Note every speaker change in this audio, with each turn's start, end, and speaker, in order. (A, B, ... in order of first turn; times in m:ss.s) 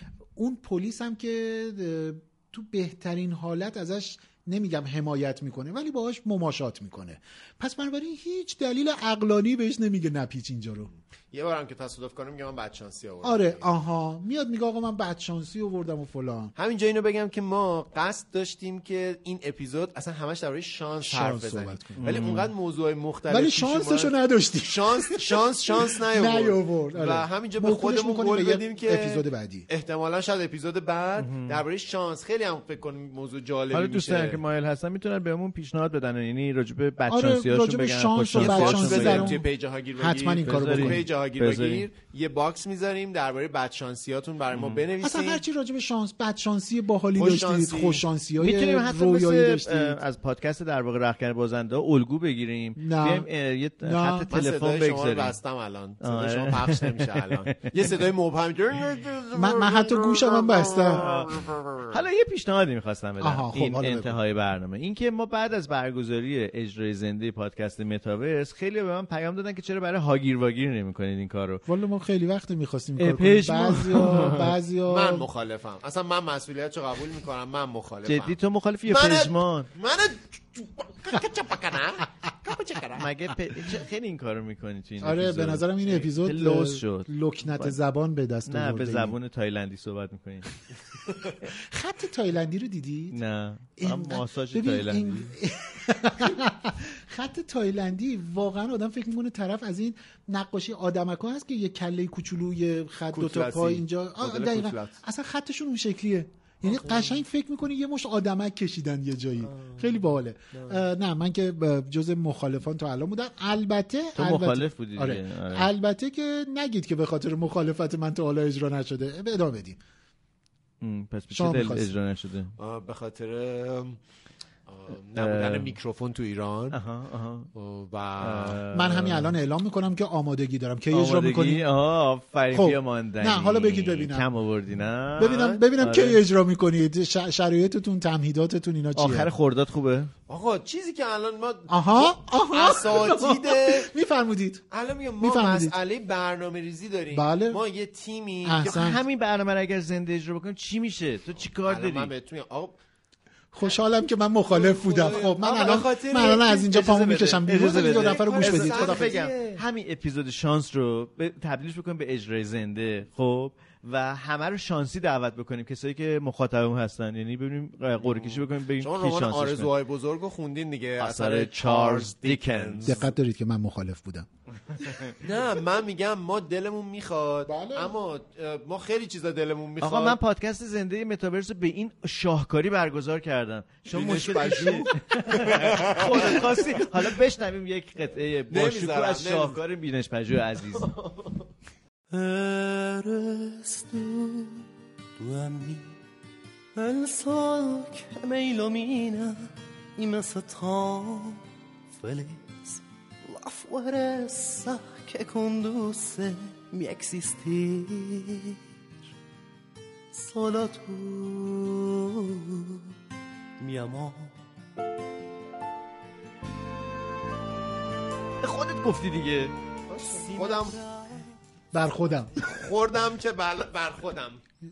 0:00.4-0:10.9 A
0:11.3-0:13.7 B
0:13.2-0:16.5 A
0:16.6-0:34.4 B
0:21.1-0:22.1 A
0:22.0-0:22.5 C
0:23.3-0:29.7 A
0:31.2-0:31.6 C
0:33.7-0:39.4 C
0:37.1-0:39.4 A
0:38.4-0:45.4 B
0:40.0-0:41.0 A
0:40.4-0:41.9 C
0:44.5-0:44.8 C
0:45.0-0:50.0 A
0:47.2-0:48.0 B
0:48.4-0:55.4 C
0:52.8-0:53.3 A
0:53.8-0:54.3 A
0:54.3-1:01.4 B
0:56.0-0:57.4 C
0:59.4-1:01.0 A
1:01.0-1:01.3 C
1:01.9-1:11.6 C
1:03.2-1:04.2 A
1:11.7-1:15.3 A
1:13.0-1:14.5 C
1:14.9-1:18.4 B
1:18.1-1:19.7 C
1:18.9-1:23.1 B
1:23.0-1:27.8 C
1:25.0-1:29.2 A
1:28.4-1:30.5 C
1:31.6-1:33.2 A
1:33.1-1:35.3 C
1:33.8-1:59.8 A
1:43.1-1:45.0 B
1:54.2-1:55.7 C
2:00.8-2:02.5 C
2:01.3-2:01.9 A
2:02.6-2:04.0 B
2:04.7-2:06.8 B
2:05.2-2:05.7 C
2:06.7-2:07.5 C
2:07.6-2:08.6 B
2:08.2-2:09.4 C
2:08.7-2:11.7 A
2:10.9-2:16.2 C
2:12.5-2:14.3 A
2:15.2-2:19.3 A
2:15.2-2:15.6 B
2:19.0-2:20.1 C
2:20.3-2:23.9 B
2:21.7-2:24.6 A
2:24.7-2:28.8 B
2:25.2-2:25.8 A
2:27.1-2:27.6 A
2:28.4-2:29.0 A
2:28.6-2:32.1 C
2:31.6-2:32.8 B
2:33.5-2:39.2 A
2:34.5-2:39.6 B
2:36.2-2:49.7 C
2:48.0-2:53.1 B
2:51.0-2:53.0 C
2:52.9-2:54.3 A
2:54.8-2:55.1 C
2:55.2-3:00.2 B
2:57.5-2:58.0 A
2:59.8-3:10.9 C
3:03.9-3:06.6 B
3:08.5-3:09.6 B
3:12.1-3:14.7 D
3:15.2-3:15.9 D
3:16.8-3:21.4 D
3:21.9-3:28.6 D
3:30.1-3:32.9 D
3:33.6-3:34.3 D
3:38.4-3:39.5 C
3:39.9-3:40.8 B
3:41.7-3:42.4 A
3:42.4-3:44.4 B